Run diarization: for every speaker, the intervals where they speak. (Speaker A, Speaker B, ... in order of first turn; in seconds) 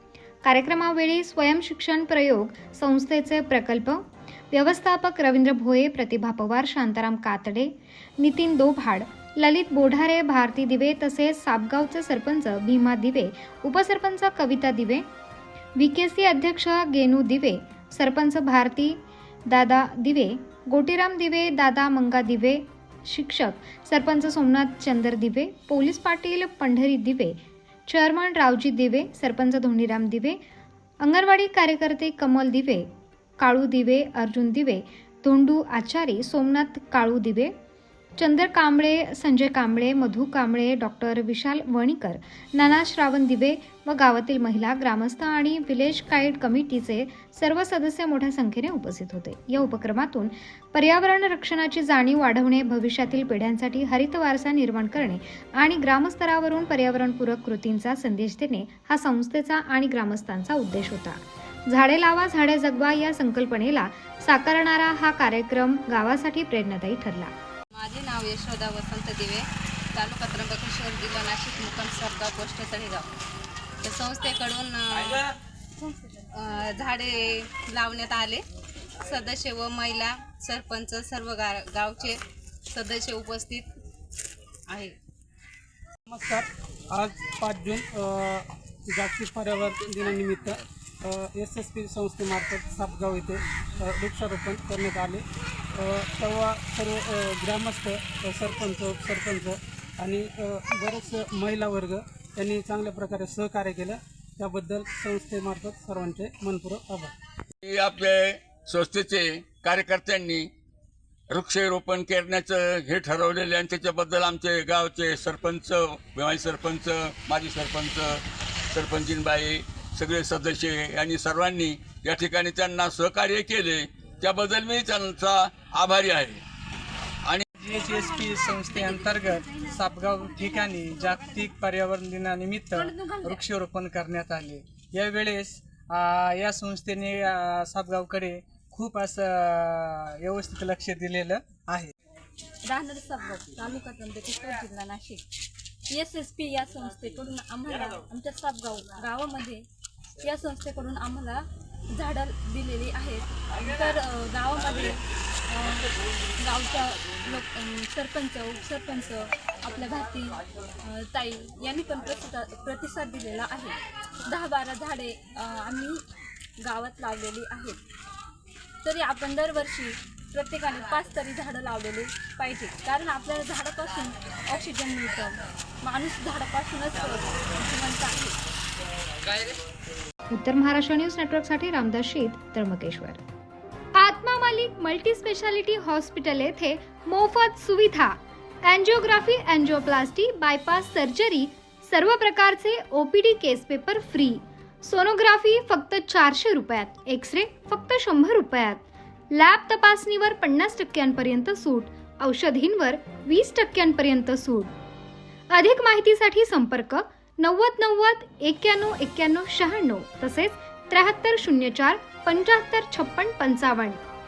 Speaker A: 0.4-15.1, 15.8-30.4, 31.0-37.5, 38.2-67.3, 180.3-183.2, 183.9-204.7, 205.5-214.0
Speaker B: 67.7-73.1, 73.8-75.2, 76.4-78.4, 79.0-82.2, 82.7-83.7
Speaker C: 75.8-76.3, 127.7-131.5, 132.7-133.4, 142.7-145.2, 145.9-149.6, 150.2-155.0, 155.5-166.0, 166.6-167.8, 168.8-178.4
Speaker D: 86.1-95.2, 95.8-107.1
Speaker E: 107.6-110.5, 111.3-118.2, 118.7-126.4
Speaker F: 127.6-141.9